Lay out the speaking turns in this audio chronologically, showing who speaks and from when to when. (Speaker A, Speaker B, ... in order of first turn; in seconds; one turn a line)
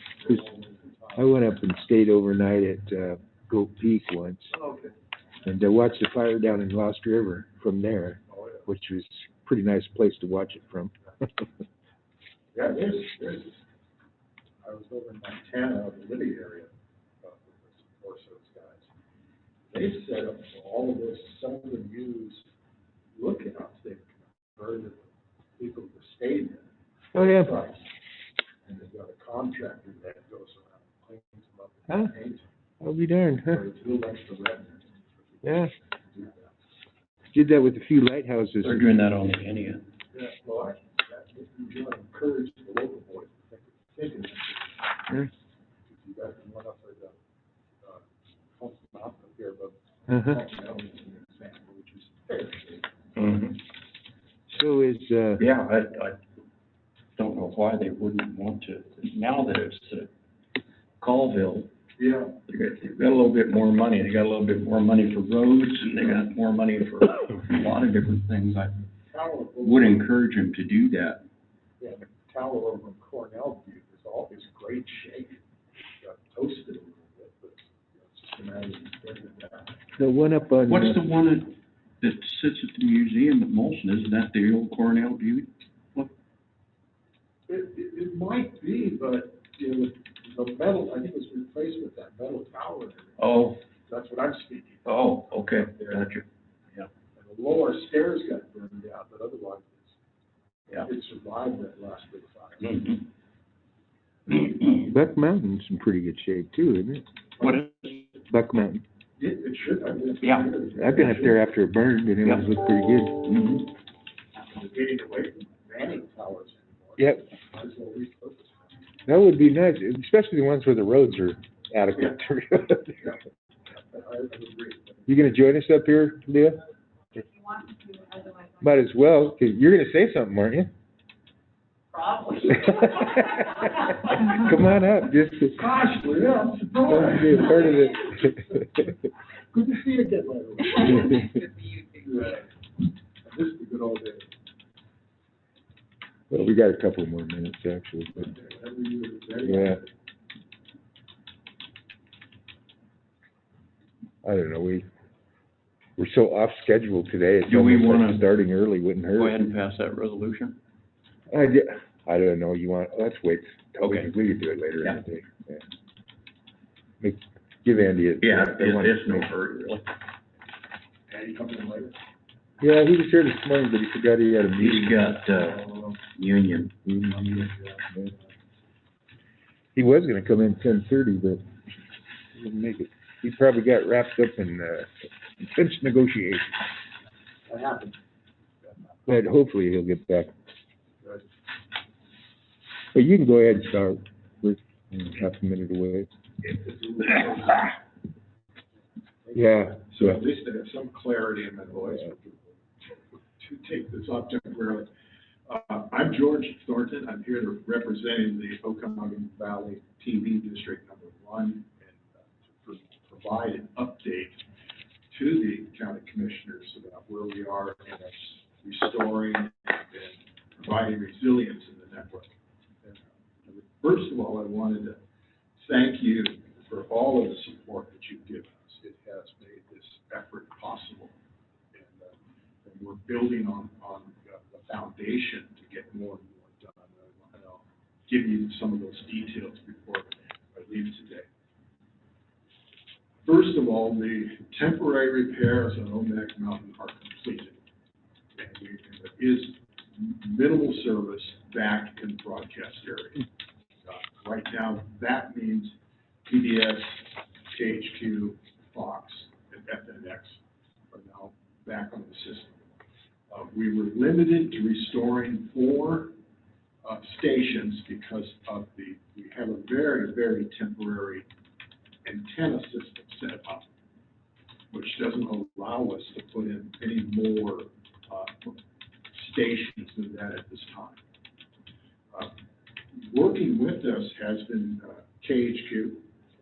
Speaker A: 0.2-1.5
Speaker B: 1.2-4.5
Speaker A: 4.5-5.0
Speaker B: 5.5-10.9
Speaker A: 8.3-8.7
Speaker A: 12.5-13.6
Speaker A: 14.6-16.7
Speaker A: 17.2-18.9
Speaker A: 19.7-22.5
Speaker A: 23.1-26.7
Speaker B: 27.1-27.6
Speaker A: 27.2-27.8
Speaker A: 28.6-32.5
Speaker B: 32.8-33.6
Speaker A: 33.5-36.5
Speaker B: 35.4-35.7
Speaker B: 37.3-38.9
Speaker C: 38.6-39.9
Speaker A: 40.1-45.2
Speaker A: 45.9-47.2
Speaker A: 47.8-52.9
Speaker B: 50.1-50.4
Speaker C: 53.2-53.6
Speaker B: 54.5-55.5
Speaker C: 55.4-56.2
Speaker C: 57.2-60.1
Speaker C: 61.0-61.7
Speaker A: 62.0-62.4
Speaker C: 62.5-68.8
Speaker A: 69.1-70.1
Speaker C: 69.6-71.2
Speaker A: 71.8-75.4
Speaker A: 76.0-79.8
Speaker B: 80.0-81.1
Speaker C: 80.7-86.1
Speaker A: 87.5-96.1
Speaker C: 93.2-93.6
Speaker C: 94.8-96.9
Speaker A: 97.2-99.9
Speaker A: 100.7-102.9
Speaker C: 102.6-103.0
Speaker C: 104.3-104.8
Speaker B: 104.8-107.0
Speaker C: 107.4-108.1
Speaker B: 108.3-108.8
Speaker A: 109.2-111.4
Speaker C: 110.2-110.5
Speaker B: 110.8-113.3
Speaker C: 113.2-113.7
Speaker A: 114.5-118.6
Speaker B: 117.0-117.2
Speaker B: 119.1-123.2
Speaker A: 123.7-125.2
Speaker B: 125.1-126.6
Speaker D: 127.1-128.7
Speaker B: 128.6-130.7
Speaker D: 131.9-134.3
Speaker B: 134.2-135.7
Speaker A: 135.6-137.8
Speaker B: 136.8-138.7
Speaker A: 139.5-141.3
Speaker D: 140.9-142.2
Speaker A: 142.0-142.5
Speaker A: 143.2-144.3
Speaker B: 146.3-148.3
Speaker A: 148.2-149.9
Speaker B: 149.4-149.8
Speaker B: 154.2-154.9
Speaker B: 156.0-159.5
Speaker C: 157.5-158.3
Speaker C: 159.1-160.6
Speaker B: 161.3-165.6
Speaker C: 163.8-164.1
Speaker B: 167.0-169.3
Speaker C: 168.2-169.9
Speaker A: 171.1-172.0
Speaker B: 172.6-175.1
Speaker C: 174.6-176.7
Speaker A: 175.4-176.0
Speaker B: 176.9-178.1
Speaker A: 177.0-178.2
Speaker B: 179.8-181.4
Speaker B: 182.3-186.6
Speaker A: 187.5-188.0
Speaker A: 188.6-189.2
Speaker B: 189.1-190.3
Speaker B: 192.9-196.1
Speaker A: 196.4-197.8
Speaker A: 199.2-204.9
Speaker B: 199.3-200.2
Speaker A: 205.5-214.4
Speaker A: 215.1-225.0
Speaker A: 225.6-231.1
Speaker A: 231.7-241.3
Speaker A: 243.2-247.6
Speaker A: 248.4-253.3
Speaker A: 253.8-262.6
Speaker A: 263.3-266.2
Speaker A: 266.8-271.3
Speaker A: 272.0-273.7
Speaker A: 274.7-278.6
Speaker A: 279.1-281.0
Speaker A: 282.9-286.1